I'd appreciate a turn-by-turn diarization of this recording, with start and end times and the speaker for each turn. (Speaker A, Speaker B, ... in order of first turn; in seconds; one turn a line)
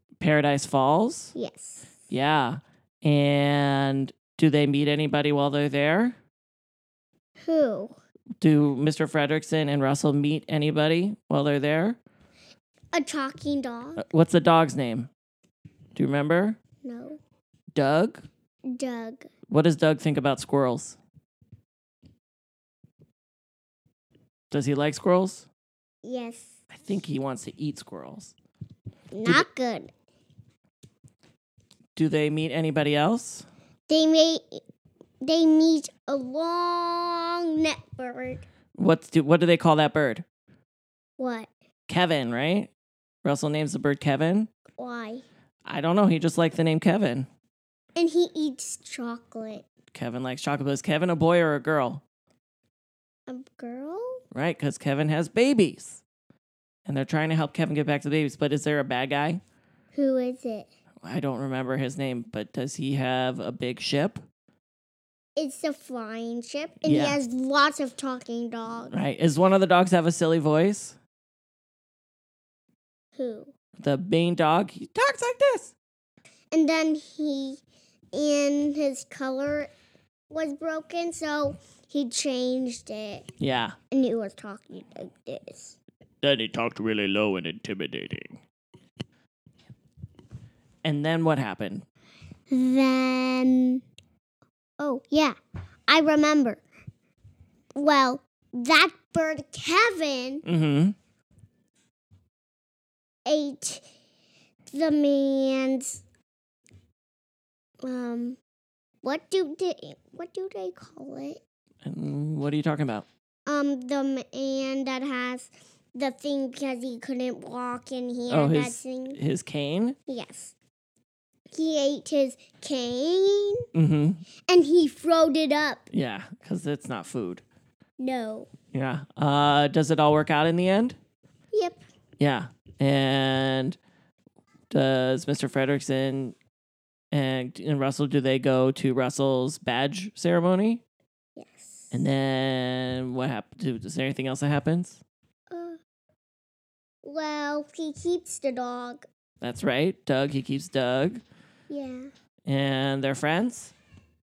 Speaker A: 0.2-1.3
Speaker B: 1.3-1.9
Speaker A: 2.1-6.2
Speaker B: 7.4-7.9
Speaker A: 8.4-12.0
Speaker B: 12.9-14.0
Speaker A: 14.0-15.1
Speaker A: 15.9-16.6
Speaker B: 16.8-17.2
Speaker A: 17.7-18.2
Speaker B: 18.7-19.3
Speaker A: 19.5-21.0
Speaker A: 24.5-25.5
Speaker B: 26.0-26.6
Speaker A: 26.7-28.3
Speaker B: 29.1-29.9
Speaker A: 32.0-33.5
Speaker B: 33.9-34.6
Speaker B: 35.2-38.4
Speaker A: 38.8-40.2
Speaker B: 41.2-41.5
Speaker A: 41.9-42.7
Speaker A: 43.2-44.5
Speaker B: 44.8-45.2
Speaker A: 45.6-47.3
Speaker B: 48.0-49.6
Speaker A: 49.9-52.0
Speaker B: 53.3-54.2
Speaker A: 54.3-56.0
Speaker A: 56.9-59.4
Speaker B: 59.9-60.7
Speaker A: 61.0-64.2
Speaker B: 65.4-68.9
Speaker A: 66.8-67.2
Speaker A: 68.9-71.0
Speaker B: 73.2-73.5
Speaker A: 73.8-75.7
Speaker B: 76.5-77.6
Speaker B: 78.1-79.7
Speaker B: 80.3-83.3
Speaker A: 83.4-83.8
Speaker B: 83.9-85.8
Speaker A: 86.2-88.4
Speaker A: 90.8-91.8
Speaker B: 92.5-93.8
Speaker B: 94.8-95.4
Speaker B: 95.9-96.6
Speaker B: 97.8-100.4
Speaker A: 100.4-101.0
Speaker B: 103.3-103.9
Speaker B: 104.7-106.0
Speaker B: 107.8-108.4
Speaker B: 109.0-111.4
Speaker A: 111.8-113.0
Speaker B: 113.5-119.2
Speaker A: 118.3-120.0
Speaker B: 120.1-120.5
Speaker B: 121.5-123.7
Speaker A: 123.7-124.2
Speaker B: 124.5-125.8
Speaker A: 125.9-127.4
Speaker B: 128.0-128.5
Speaker A: 128.7-131.0
Speaker B: 131.5-131.8
Speaker A: 132.2-133.8
Speaker A: 134.7-136.3
Speaker A: 137.1-140.8
Speaker B: 141.3-142.0
Speaker A: 141.9-145.0
Speaker B: 145.5-145.8
Speaker B: 147.0-149.1
Speaker A: 149.4-151.2
Speaker B: 151.7-152.1
Speaker A: 152.4-153.7